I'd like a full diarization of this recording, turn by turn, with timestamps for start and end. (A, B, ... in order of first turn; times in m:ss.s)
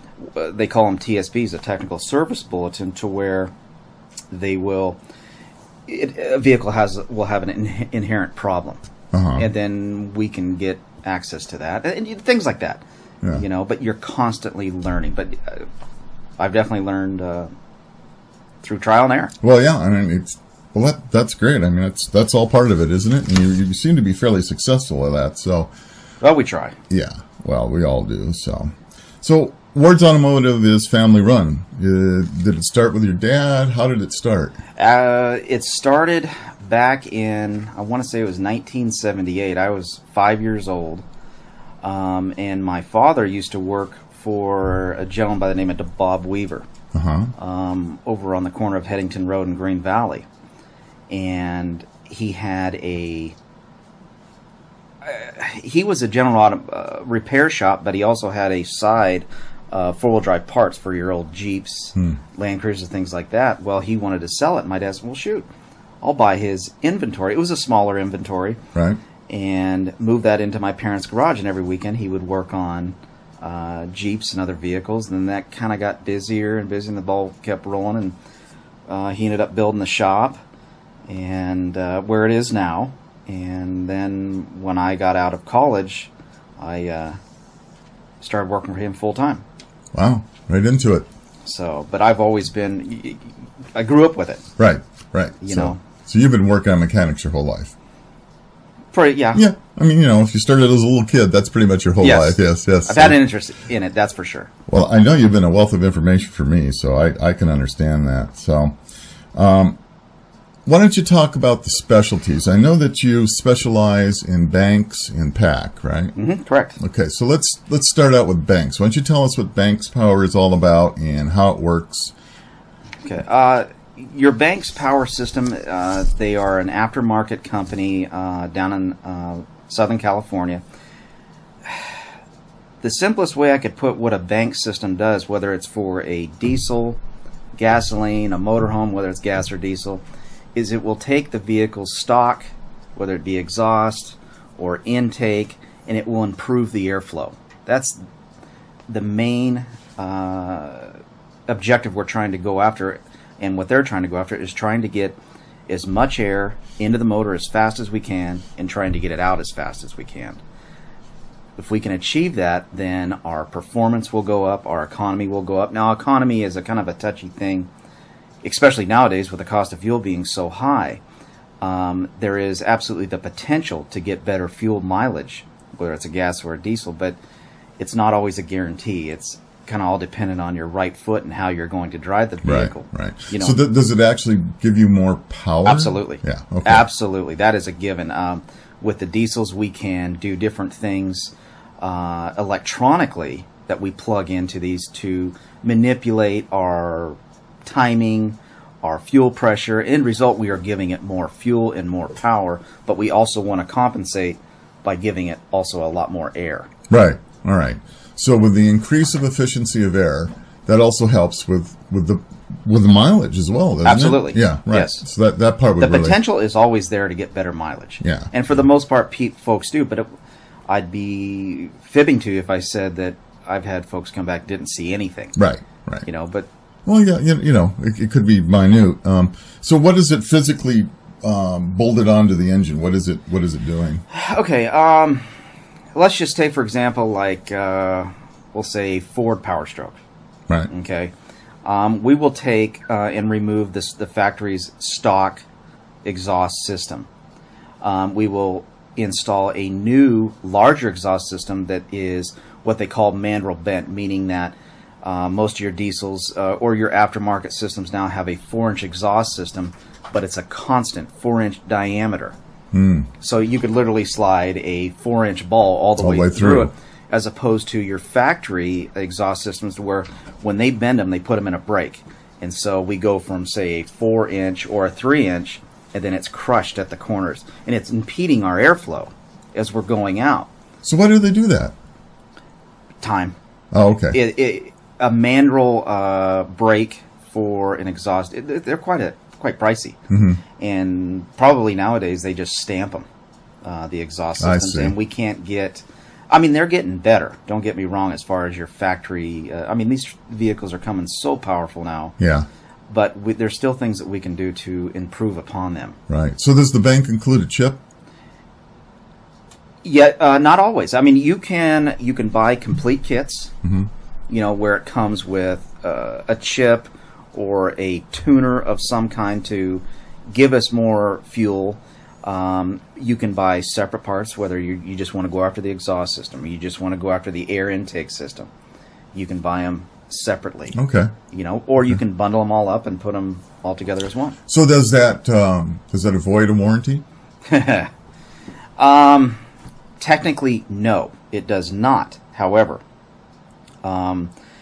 0:00.2-0:03.5 A
0:04.3-0:05.0 A
0:05.9-0:08.8 A
0:09.1-0:09.5 B
0:09.4-0:12.8 A
0:13.3-0:15.7 A
0:16.4-0:17.5 A
0:18.6-0:19.3 A
0:19.4-0:25.7 B
0:26.2-0:26.8 A
0:26.9-0:34.6 B
0:34.8-0:41.0 A
0:41.8-0:46.7 A
0:46.9-0:47.3 B
0:47.4-0:50.2 A
0:51.1-0:53.3 A
0:55.0-1:05.5 A
1:06.0-1:08.6 A
1:09.3-1:18.2 A
1:18.9-1:20.4 A
1:21.1-1:27.2 A
1:28.2-1:29.4 A
1:29.9-1:31.1 B
1:31.4-1:34.4 A
1:34.6-1:37.7 B
1:35.4-1:35.8 A
1:38.9-1:39.4 A
1:39.3-1:43.2 B
1:42.0-1:44.5 A
1:44.7-1:48.8 B
1:49.3-1:49.8 B
1:50.6-1:56.1 B
1:56.1-1:56.8 A
1:56.8-2:02.1 B
2:03.0-2:10.6 A
2:11.6-2:12.0 A
2:12.8-2:17.0 A
2:17.6-2:20.0 A
2:20.5-2:28.0 A
2:28.9-2:40.4 A
2:41.6-2:47.7 A
2:48.4-2:51.0 A
2:51.6-2:57.2 A
2:57.8-3:03.6 A
3:02.4-3:06.8 B
3:05.6-3:26.7 A
3:26.9-3:36.2 B
3:33.8-3:35.0 A
3:35.8-3:40.1 A
3:38.0-3:38.3 B
3:40.7-3:45.4 A
3:45.4-3:46.0 B
3:46.0-3:46.5 A
3:46.8-3:54.0 B
3:54.1-3:55.2 A
3:55.9-4:00.0 A
4:00.7-4:01.1 A
4:01.6-4:05.4 A
4:06.0-4:07.1 A
4:07.8-4:22.3 A
4:22.7-4:23.1 B
4:23.2-4:40.5 A
4:26.0-4:26.7 B
4:40.8-4:41.7 B
4:43.0-4:43.4 A
4:43.7-4:44.2 B
4:44.1-4:50.0 A
4:50.1-4:50.4 B
4:50.6-4:53.1 A
4:53.6-5:02.1 A
4:54.4-4:54.9 B
5:02.2-5:02.5 B
5:02.9-5:06.0 A
5:06.1-5:07.8 B
5:09.8-5:13.5 A
5:13.6-5:13.9 B
5:14.3-5:28.5 A
5:29.1-5:30.8 A
5:30.7-5:31.1 B
5:31.3-5:34.4 A
5:34.5-5:37.0 B
5:37.5-5:37.9 A
5:38.8-5:39.4 A
5:40.0-5:42.8 A
5:43.8-5:44.3 A